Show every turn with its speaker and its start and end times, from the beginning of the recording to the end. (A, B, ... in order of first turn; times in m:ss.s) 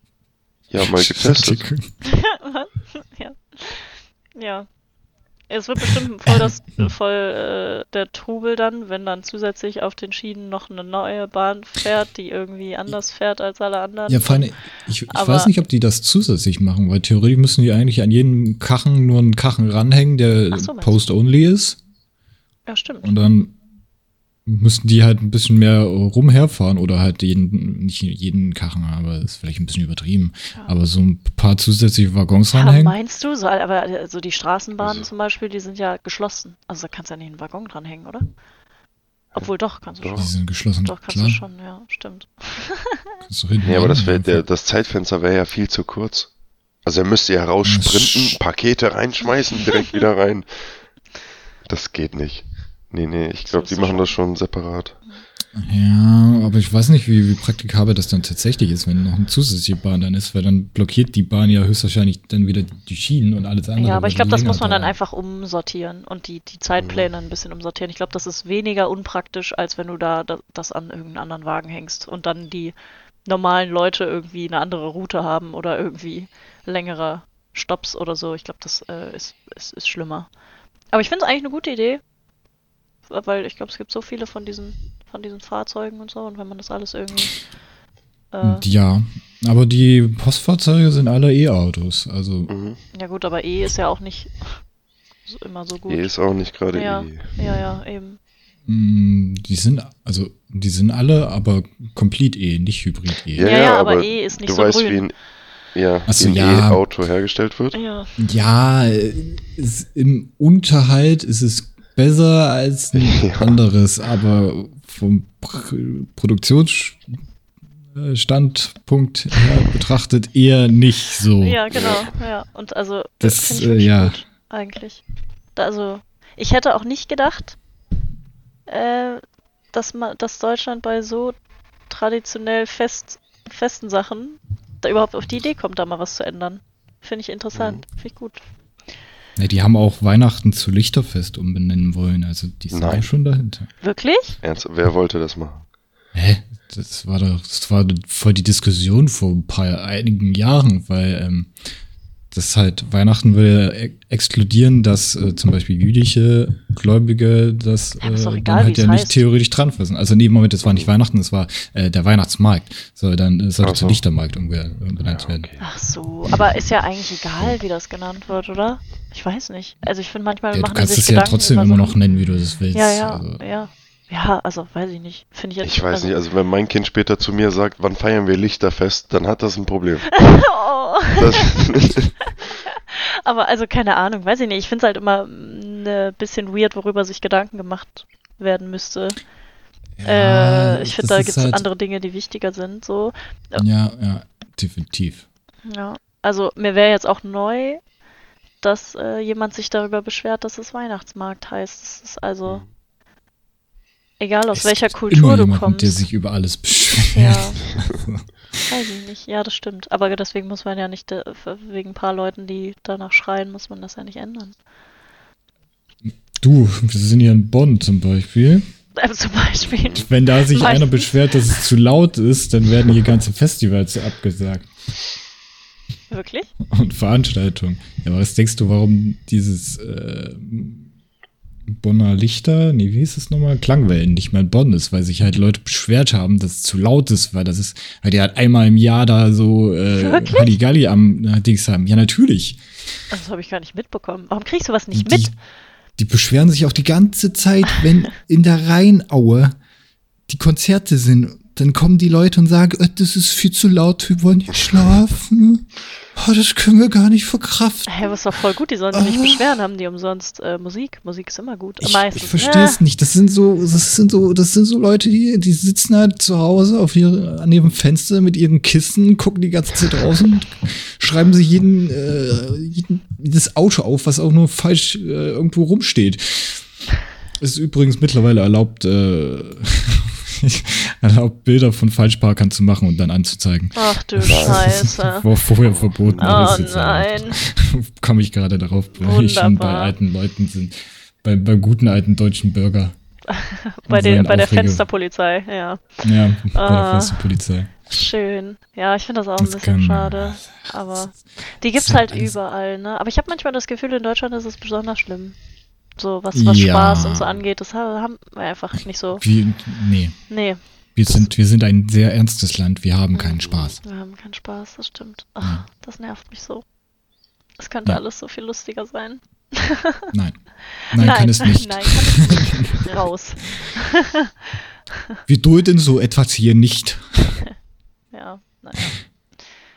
0:00.7-0:01.6 A
0:00.8-0:01.9 B
0:02.0-0:04.7 C
0:05.5-0:14.5 C
0:14.1-0:21.8 B
0:15.1-0:15.5 C
0:20.5-0:21.1 C
0:22.7-0:23.1 C
0:23.0-0:23.5 B
0:24.4-0:32.9 B
0:32.5-0:38.2 C
0:34.8-0:35.1 A
0:39.3-0:40.3 C
0:40.0-0:40.3 A
0:40.2-0:41.4 B
0:40.8-0:43.0 C
0:43.2-0:44.4 B
0:43.6-0:46.3 A
0:46.8-0:50.9 A
0:47.6-0:48.4 B
0:51.6-0:55.0 A
0:53.5-0:54.2 C
0:55.5-1:04.9 B
1:03.8-1:12.7 C
1:06.8-1:07.1 A
1:13.2-1:20.3 C
1:20.9-1:22.0 C
1:23.1-1:27.4 C
1:28.3-1:28.6 C
1:28.4-1:32.5 B
1:32.5-1:32.8 A
1:32.9-1:34.6 C
1:35.2-1:36.1 C
1:35.9-1:37.4 A
1:36.7-1:38.2 C
1:38.7-1:43.5 B
1:43.3-1:45.1 A
1:43.4-1:45.0 C
1:45.7-1:47.8 A
1:46.1-1:46.8 B
1:47.7-1:48.1 C
1:48.2-1:57.1 B
1:52.9-1:53.6 A
1:57.9-2:01.6 B
2:01.4-2:05.0 C
2:01.7-2:02.1 A
2:03.2-2:04.2 B
2:05.5-2:07.6 C
2:08.7-2:11.4 C
2:11.9-2:18.4 C
2:17.5-2:17.8 A
2:19.4-2:23.7 B
2:22.7-2:23.1 A
2:23.8-2:24.4 C
2:24.4-2:25.6 A
2:26.1-2:31.5 B
2:32.3-2:45.5 B
2:38.0-2:39.2 C
2:40.6-2:40.9 A
2:43.6-2:44.0 A
2:45.0-2:45.7 A
2:45.6-2:52.0 C
2:50.5-2:53.4 B
2:52.7-2:56.1 C
2:55.6-3:00.2 A
3:00.1-3:01.4 C
3:01.1-3:02.1 A
3:02.7-3:09.2 C
3:10.0-3:11.6 B
3:10.0-3:13.6 C
3:13.6-3:15.2 B
3:15.7-3:17.8 C
3:18.6-3:22.6 C
3:24.2-3:26.0 C
3:24.5-3:28.6 B
3:27.1-3:27.6 C
3:28.7-3:34.6 C
3:36.3-3:38.6 B
3:39.0-3:41.3 C
3:39.7-3:40.0 A
3:40.0-3:44.7 B
3:46.1-3:46.5 C
3:46.7-3:50.9 B
3:51.7-4:02.6 B
3:59.9-4:00.5 C
4:03.1-4:05.3 C
4:04.9-4:05.3 B
4:06.0-4:09.5 B
4:10.3-4:18.1 B
4:17.9-4:22.8 C
4:18.9-4:19.4 B
4:21.8-4:36.6 B
4:37.4-4:53.0 B
4:43.7-4:45.3 C
4:44.2-4:44.9 A
4:45.6-4:46.8 A
4:46.2-4:47.4 C
4:49.0-4:49.9 C
4:53.3-5:05.4 C
4:53.9-4:54.8 B
4:56.0-4:57.7 B
4:59.4-5:01.2 B
5:01.7-5:02.3 B
5:06.0-5:09.2 C
5:06.3-5:07.4 B
5:09.2-5:10.3 B
5:10.3-5:10.6 C
5:10.9-5:13.8 B
5:13.3-5:13.8 A
5:13.8-5:16.6 C
5:17.6-5:20.1 C
5:20.1-5:22.9 B
5:20.8-5:24.3 C
5:25.2-5:27.4 B
5:28.1-5:29.0 C